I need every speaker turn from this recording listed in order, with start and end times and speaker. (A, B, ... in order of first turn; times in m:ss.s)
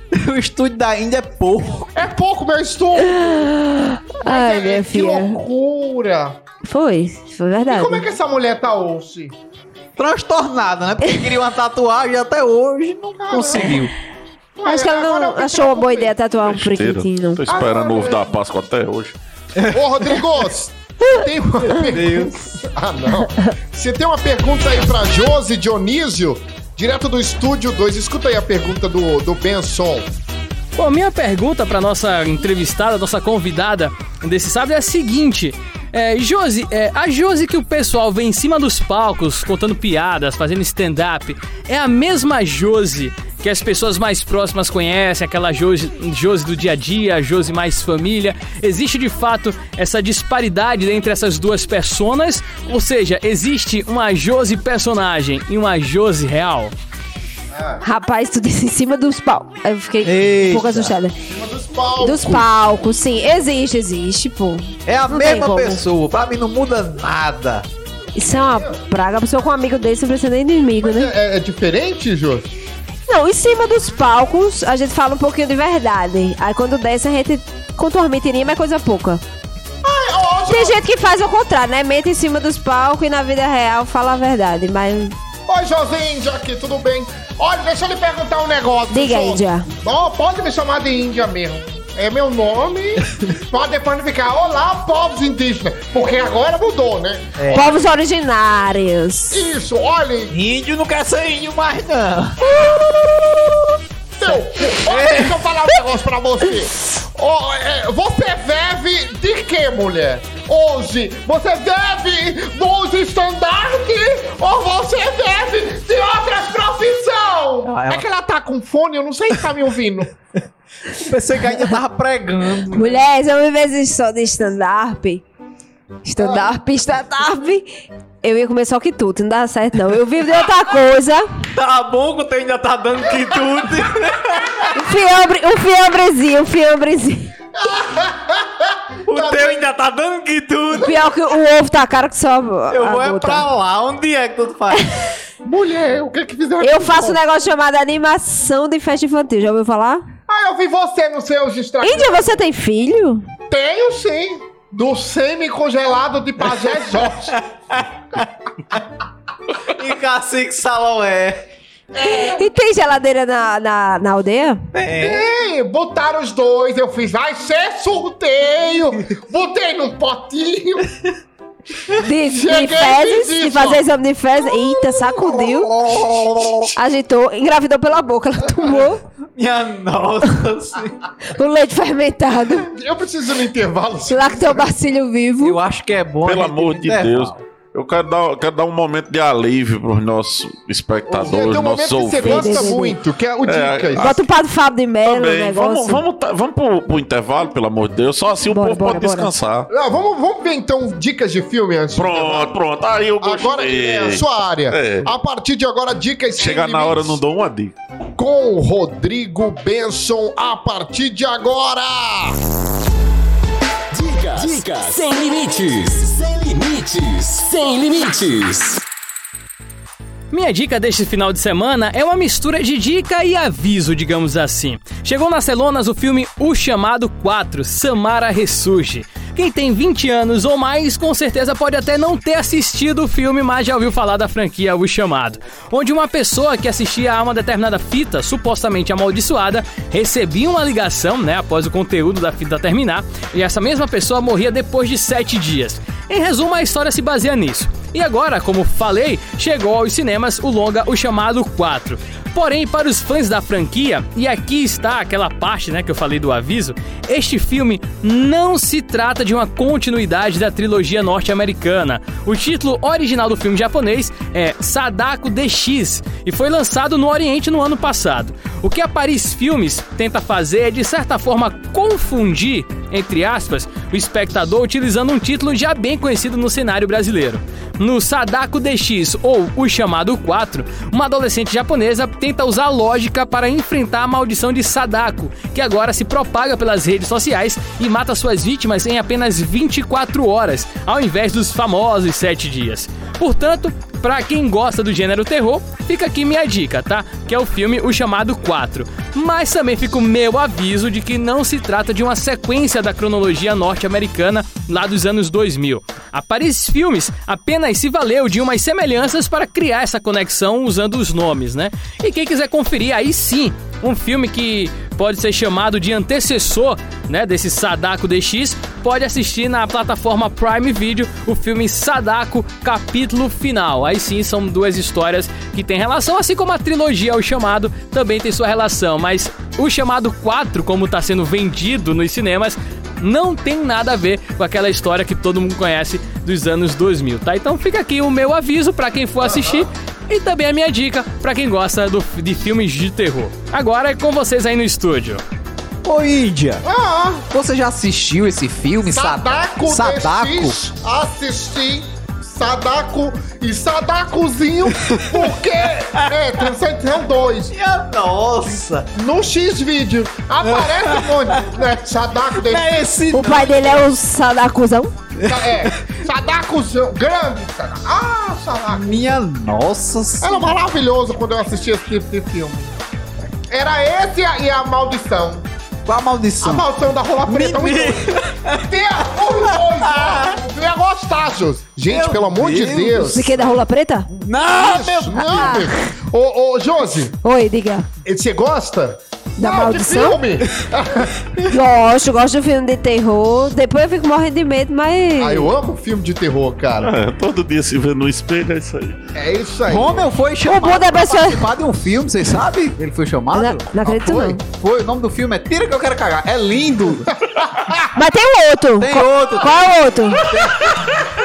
0:00.1-0:02.1 A
0:02.0-0:03.4 B
0:03.2-0:05.4 C
0:04.2-0:06.4 B
0:06.6-0:08.0 C
0:07.7-0:09.3 B
0:10.0-0:13.9 A
0:13.2-0:13.8 B
0:14.6-0:16.2 B
0:14.7-0:17.4 C
0:16.5-0:19.2 D
0:17.5-0:18.3 B
0:19.6-0:20.2 A
0:19.7-0:30.1 B
0:21.7-0:22.4 A
0:30.8-0:56.7 E
0:57.5-0:57.8 B
0:57.8-1:01.2 C
1:00.0-1:01.0 A
1:01.3-1:02.5 B
1:02.0-1:05.8 C
1:04.9-1:07.7 A
1:08.2-1:11.1 C
1:08.3-1:08.8 B
1:10.8-1:12.5 B
1:13.1-1:19.2 C
1:19.8-1:20.8 B
1:20.5-1:25.2 C
1:25.5-1:37.7 B
1:28.9-1:29.7 C
1:37.4-1:37.7 A
1:37.5-1:39.4 C
1:39.3-1:40.3 B
1:40.3-1:42.7 A
1:42.4-1:42.9 B
1:44.2-2:00.1 B
1:44.3-1:45.4 A
1:57.6-1:58.1 A
2:00.9-2:03.0 A
2:02.7-2:05.2 C
2:06.0-2:07.7 C
2:06.2-2:06.5 B
2:08.2-2:11.2 C
2:11.6-2:14.7 A
2:14.7-2:17.3 C
2:17.6-2:19.7 B
2:19.0-2:20.9 A
2:20.8-2:23.5 C
2:22.7-2:25.0 A
2:25.4-2:27.2 B
2:26.6-2:30.0 C
2:30.3-2:32.4 B
2:31.8-2:33.2 C
2:33.5-2:37.4 B
2:36.6-2:38.2 A
2:39.7-2:41.5 A
2:42.0-2:42.4 B
2:42.0-2:44.6 C
2:44.7-2:45.3 A
2:45.0-2:50.9 B
2:52.0-2:55.7 C
2:52.3-2:53.8 B
2:55.4-2:56.7 A
2:55.8-2:56.6 B
2:56.8-2:59.0 C
2:59.4-3:01.0 A
3:01.3-3:02.7 C
3:02.7-3:04.7 B
3:04.1-3:05.6 C
3:05.4-3:07.4 A
3:06.2-3:12.7 D
3:11.1-3:14.1 B
3:12.2-3:13.0 C
3:13.4-3:14.2 D
3:14.0-3:16.0 C
3:15.0-3:19.7 D
3:18.5-3:19.3 C
3:19.7-3:22.6 B
3:21.9-3:25.1 D
3:23.2-3:27.2 B
3:26.4-3:27.8 D
3:28.2-3:32.4 B
3:33.9-3:38.8 F
3:40.3-5:45.2 E
5:39.2-5:39.7 B
5:45.8-5:46.6 A
5:46.6-5:47.3 B
5:47.3-5:50.6 A
5:48.9-5:57.5 B
5:56.0-5:56.4 A
5:57.5-5:58.9 A
5:58.9-6:02.8 B
6:00.4-6:01.5 A
6:02.4-6:03.9 A
6:03.1-6:04.9 C
6:05.2-6:05.7 A
6:05.3-6:09.2 B
6:08.7-6:10.5 A
6:10.2-6:12.7 B
6:13.5-6:15.5 B
6:15.9-6:16.7 A
6:16.4-6:23.3 B
6:17.3-6:20.4 A
6:21.8-6:23.5 A
6:23.0-6:24.1 C
6:24.1-6:25.7 A
6:24.5-6:27.1 B
6:25.3-6:25.7 C
6:27.2-6:27.9 C
6:28.0-6:31.3 B
6:29.4-6:30.2 C
6:31.5-6:35.5 C
6:35.2-6:36.9 B
6:36.8-6:39.0 D
6:39.2-6:40.1 B
6:39.7-6:43.7 A
6:40.5-6:41.5 C
6:43.3-6:44.4 C
6:43.8-6:44.4 B
6:44.5-6:47.1 A
6:47.5-6:47.8 B
6:48.0-6:50.2 C
6:48.8-6:51.0 A
6:50.6-6:50.9 B